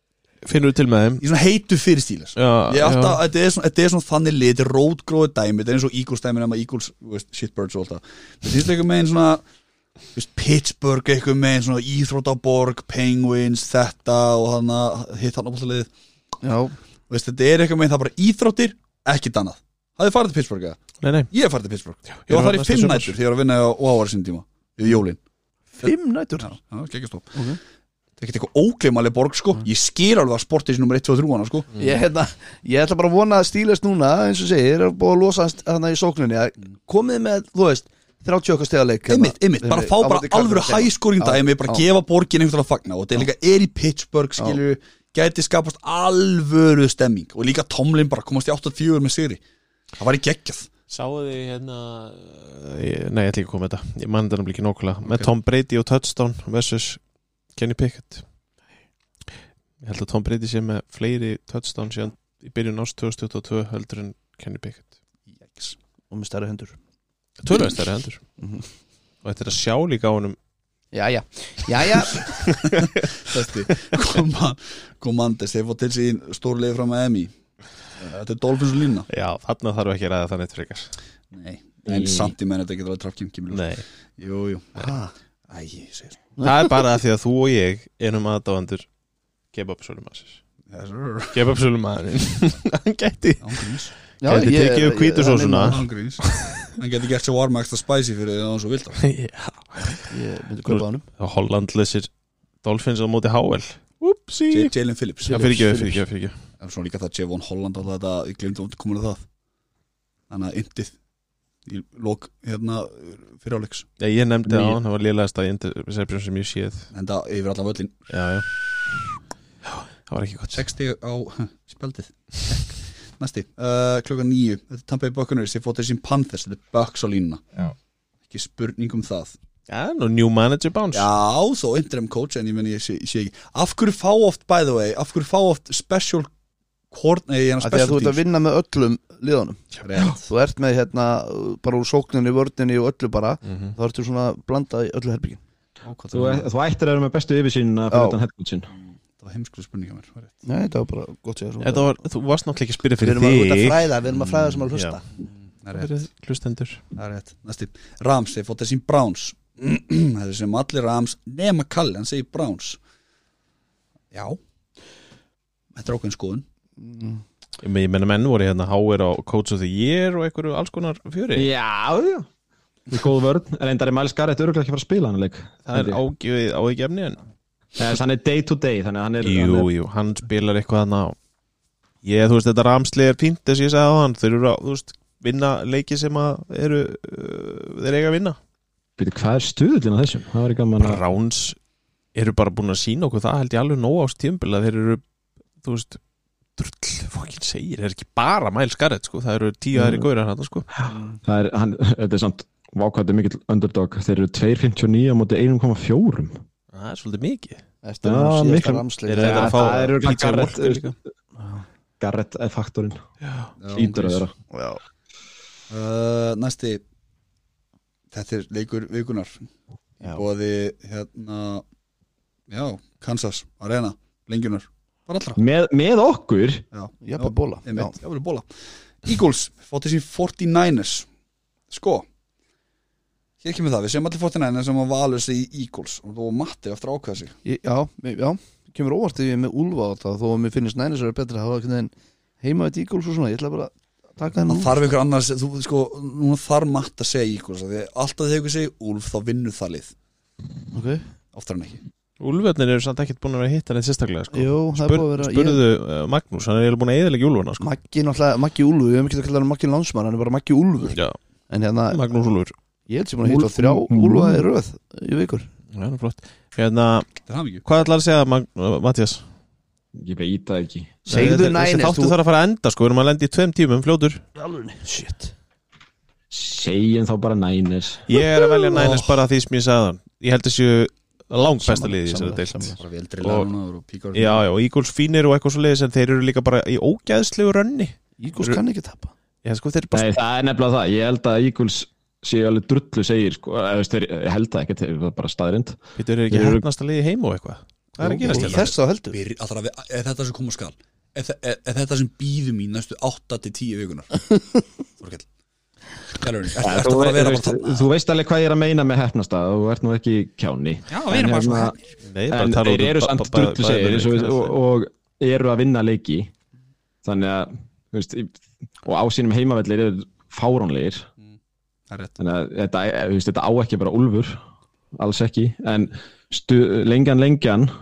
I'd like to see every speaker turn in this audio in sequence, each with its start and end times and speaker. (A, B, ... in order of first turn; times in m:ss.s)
0:00.4-0:01.2 A
0:01.2-0:09.4 B
0:02.4-0:03.2 A
0:10.1-0:15.9 B
0:16.4-0:16.8 C
0:17.1-0:25.2 B
0:21.0-0:21.3 A
0:22.2-0:23.2 A
0:25.8-0:26.5 C
0:25.8-0:27.4 B
0:27.3-0:27.6 C
0:28.2-0:31.7 B
0:31.8-0:41.8 C
0:39.1-0:49.4 B
0:50.0-0:50.7 B
0:50.9-0:57.0 A
0:57.6-0:58.2 A
0:59.8-1:04.9 A
1:05.3-1:05.8 B
1:06.1-1:06.8 C
1:07.4-1:08.2 A
1:08.4-1:08.7 C
1:09.2-1:10.4 A
1:10.9-1:12.3 C
1:12.1-1:14.0 A
1:12.8-1:17.3 B
1:18.0-1:19.1 B
1:19.1-1:20.9 A
1:21.3-1:24.9 B
1:21.9-1:22.3 D
1:23.5-1:23.8 A
1:24.8-1:25.1 C
1:25.5-1:26.2 B
1:26.4-1:28.9 A
1:29.5-1:30.4 A
1:30.7-1:31.4 B
1:31.3-1:36.7 A
1:33.4-1:33.9 B
1:34.2-1:35.8 C
1:35.6-1:39.0 B
1:39.0-1:40.1 A
1:40.0-1:41.0 C
1:40.7-1:42.1 A
1:42.6-1:46.4 A
1:44.5-1:45.5 B
1:45.3-1:46.0 C
1:46.6-1:49.2 B
1:50.3-1:51.0 B
1:51.6-1:53.9 B
1:54.0-1:56.9 A
1:54.4-1:54.8 D
1:56.9-1:58.0 B
1:58.1-1:58.4 A
1:59.6-2:00.6 A
2:00.5-2:07.5 B
2:08.3-2:09.3 B
2:09.7-2:11.1 A
2:10.9-2:16.3 B
2:16.9-2:18.2 B
2:17.6-2:19.6 C
2:19.8-2:20.3 B
2:20.2-2:25.4 C
2:23.4-2:23.7 A
2:25.8-2:26.5 B
2:26.1-2:28.7 D
2:27.9-2:28.2 C
2:28.7-2:30.4 B
2:30.4-2:31.9 C
2:31.6-2:35.0 A
2:33.0-2:35.0 C
2:35.2-2:36.0 B
2:35.7-2:36.8 A
2:37.0-2:42.8 B
2:44.1-2:44.4 B
2:45.7-2:46.4 B
2:46.8-2:47.2 C
2:47.6-2:51.5 A
2:51.4-2:52.3 D
2:52.9-2:56.0 D
2:55.7-2:57.2 A
2:57.8-2:59.7 D
2:59.2-3:01.2 A
3:02.0-3:08.4 A
3:09.0-3:11.0 D
3:10.8-3:11.6 A
3:12.2-3:15.0 A
3:15.6-3:16.0 A
3:16.6-3:20.7 A
3:19.7-3:20.1 D
3:20.8-3:26.4 D
3:26.7-3:27.6 A
3:27.8-3:29.9 C
3:28.0-3:31.0 D
3:29.1-3:31.0 A
3:31.4-3:31.6 C
3:32.0-3:33.0 D
3:33.2-3:33.5 A
3:33.6-3:34.3 B
3:33.7-3:34.3 D
3:34.5-3:34.8 C
3:35.7-3:36.8 B
3:38.1-3:39.4 B
3:40.0-3:41.6 B
3:42.5-3:45.4 B
3:45.4-3:46.6 D
3:46.7-3:48.5 B
3:47.0-3:48.0 C
3:49.0-3:51.1 B
3:51.7-3:52.1 B
3:53.4-3:57.4 B
3:57.4-4:04.7 C
4:04.5-4:09.9 B
4:10.7-4:11.0 C
4:11.3-4:11.8 B
4:12.2-4:17.7 A
4:14.3-4:15.6 C
4:17.6-4:21.0 C
4:20.8-4:21.2 A
4:21.5-4:22.0 C
4:21.9-4:22.5 A
4:22.9-4:25.5 C
4:23.2-4:24.4 D
4:25.7-4:27.1 A
4:27.3-4:27.6 B
4:27.6-4:29.2 A
4:30.0-4:31.0 D
4:31.1-4:32.2 C
4:31.1-4:34.2 A
4:34.4-4:35.3 C
4:36.3-4:38.1 D
4:38.1-4:43.5 A
4:38.7-4:39.1 B
4:41.6-4:42.8 C
4:42.8-4:44.4 B
4:44.1-4:48.6 A
4:48.2-4:49.1 C
4:49.4-4:50.1 A
4:49.9-4:56.6 D
4:56.0-4:58.7 A
4:58.0-4:59.2 C
4:58.2-5:04.3 B
5:05.0-5:05.3 B
5:06.2-5:07.9 B
5:06.6-5:11.7 D
5:10.9-5:11.8 B
5:12.0-5:14.6 A
5:12.3-5:16.3 D
5:17.0-5:21.1 D
5:21.9-5:22.2 B
5:22.2-5:24.4 D
5:25.0-5:27.7 D